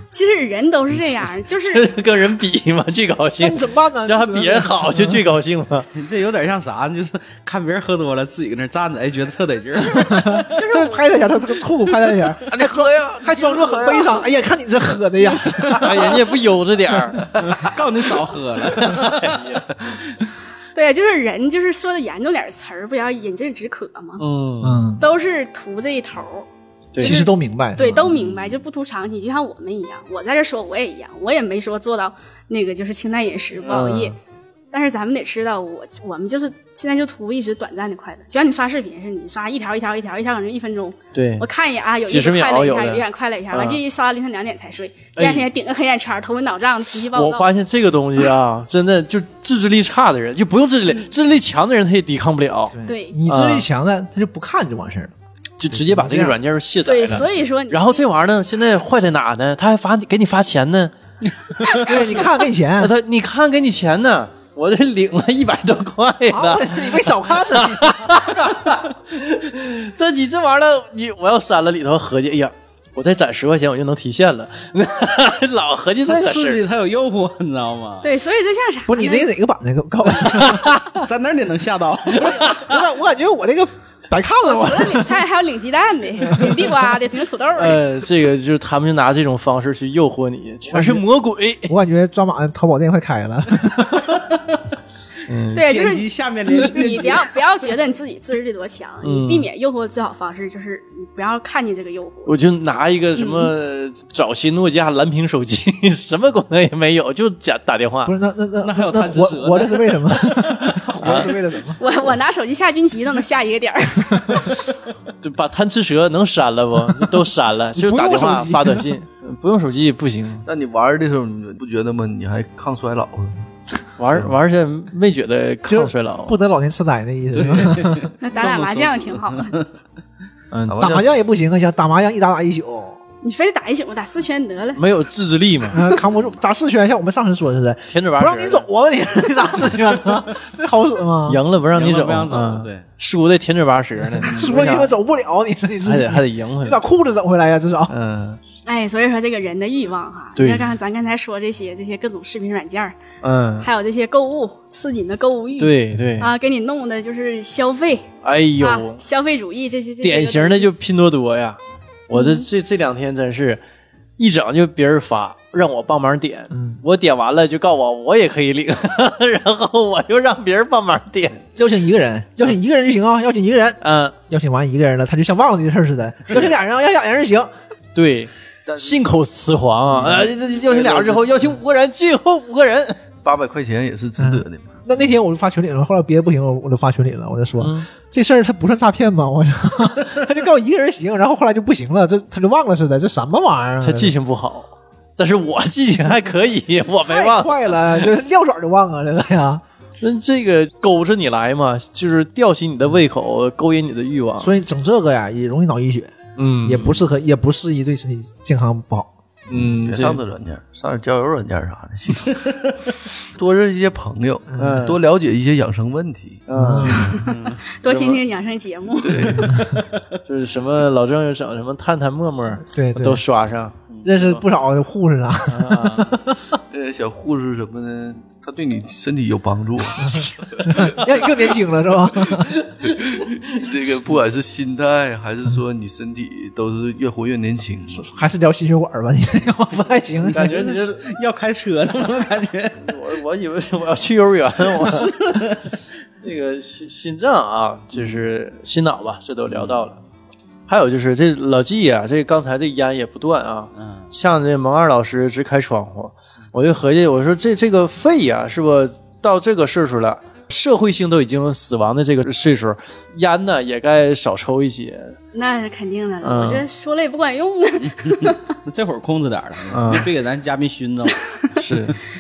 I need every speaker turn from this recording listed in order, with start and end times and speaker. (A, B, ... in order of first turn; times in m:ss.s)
0:00.1-0:01.9 A
0:01.6-0:05.9 B
0:03.4-0:05.2 C
0:05.9-0:10.1 D
0:09.7-0:11.3 A
0:09.9-0:16.3 C
0:12.5-0:14.1 E
0:15.8-0:17.8 B
0:17.4-0:19.6 D
0:18.8-0:19.6 B
0:20.8-0:24.2 A
0:24.2-0:24.8 B
0:24.6-0:25.0 C
0:25.0-0:26.5 A
0:26.9-0:27.2 B
0:27.0-0:28.1 C
0:27.0-0:34.2 A
0:28.1-0:28.4 D
0:33.7-0:34.2 B
0:34.7-0:47.5 A
0:41.1-0:41.5 B
0:42.0-0:43.8 B
0:45.2-0:45.5 B
0:47.1-0:53.7 B
0:50.9-0:51.1 A
0:52.7-0:55.1 C
0:52.8-0:53.2 A
0:55.6-1:00.9 B
0:55.7-0:56.4 C
0:56.8-0:58.0 A
1:01.7-1:02.2 B
1:01.7-1:03.0 C
1:02.8-1:16.6 B
1:06.3-1:08.3 C
1:16.0-1:18.1 D
1:18.0-1:19.3 A
1:18.9-1:20.8 C
1:20.3-1:22.8 D
1:22.2-1:25.2 C
1:24.4-1:27.8 A
1:26.3-1:26.7 C
1:27.6-1:31.7 B
1:30.7-1:31.1 C
1:31.7-1:34.3 C
1:35.3-1:35.7 B
1:35.5-1:42.4 A
1:35.6-1:37.3 D
1:39.0-1:39.5 B
1:42.3-1:48.1 B
1:43.2-1:43.5 A
1:48.0-1:51.8 C
1:48.6-1:50.9 D
1:51.0-1:51.3 B
1:51.8-1:54.6 A
1:55.2-2:00.4 B
1:57.8-1:58.9 C
2:00.5-2:03.5 E
2:04.0-2:06.4 B
2:05.7-2:08.1 C
2:07.3-2:09.7 D
2:08.2-2:09.6 A
2:10.5-2:11.1 B
2:10.7-2:11.0 E
2:10.8-2:13.0 C
2:13.2-2:14.8 A
2:14.8-2:15.9 B
2:15.7-2:21.4 C
2:17.9-2:18.6 B
2:21.3-2:24.9 B
2:21.7-2:22.9 D
2:24.2-2:27.9 C
2:25.8-2:26.8 B
2:27.9-2:28.4 B
2:28.6-2:33.0 A
2:30.4-2:30.7 B
2:33.2-2:33.7 B
2:33.6-2:40.7 A
2:35.6-2:36.3 B
2:38.2-2:39.0 B
2:40.0-2:43.6 B
2:42.1-2:42.5 A
2:44.2-2:51.4 B
2:46.5-2:46.8 C
2:51.6-2:57.5 C
2:53.8-2:54.1 B
2:58.0-3:03.0 B
2:58.7-2:59.0 E
3:00.1-3:01.2 E
3:03.2-3:04.8 E
3:04.2-3:14.1 C
3:07.6-3:07.9 B
3:13.8-3:17.7 B
3:17.1-3:19.6 C
3:20.0-3:24.5 B
3:24.4-3:29.1 C
3:26.4-3:27.0 B
3:29.5-3:30.2 B
3:29.5-3:32.6 E
3:33.2-3:36.4 E
3:34.5-3:34.9 C
3:34.6-3:35.0 B
3:36.5-3:37.2 B
3:36.5-3:37.1 C
3:36.9-3:39.6 A
3:37.2-3:37.6 D
3:37.8-3:38.2 B
3:39.0-3:39.8 E
3:39.5-3:39.8 C
3:40.2-3:44.4 B
3:42.7-3:43.2 C
3:44.0-3:46.4 C
3:45.5-3:46.2 B
3:46.7-3:51.1 E
3:50.0-3:52.6 C
3:52.2-3:58.1 E
3:57.9-4:00.6 C
4:00.3-4:01.0 B
4:00.3-4:02.9 D
4:02.8-4:05.4 B
4:04.8-4:05.6 D
4:06.2-4:10.0 B
4:09.5-4:09.8 D
4:10.7-4:25.2 B
4:13.8-4:14.1 D
4:25.3-4:28.5 A
4:26.2-4:26.7 B
4:27.9-4:31.3 D
4:29.7-4:30.1 B
4:31.2-4:31.7 A
4:31.6-4:32.0 B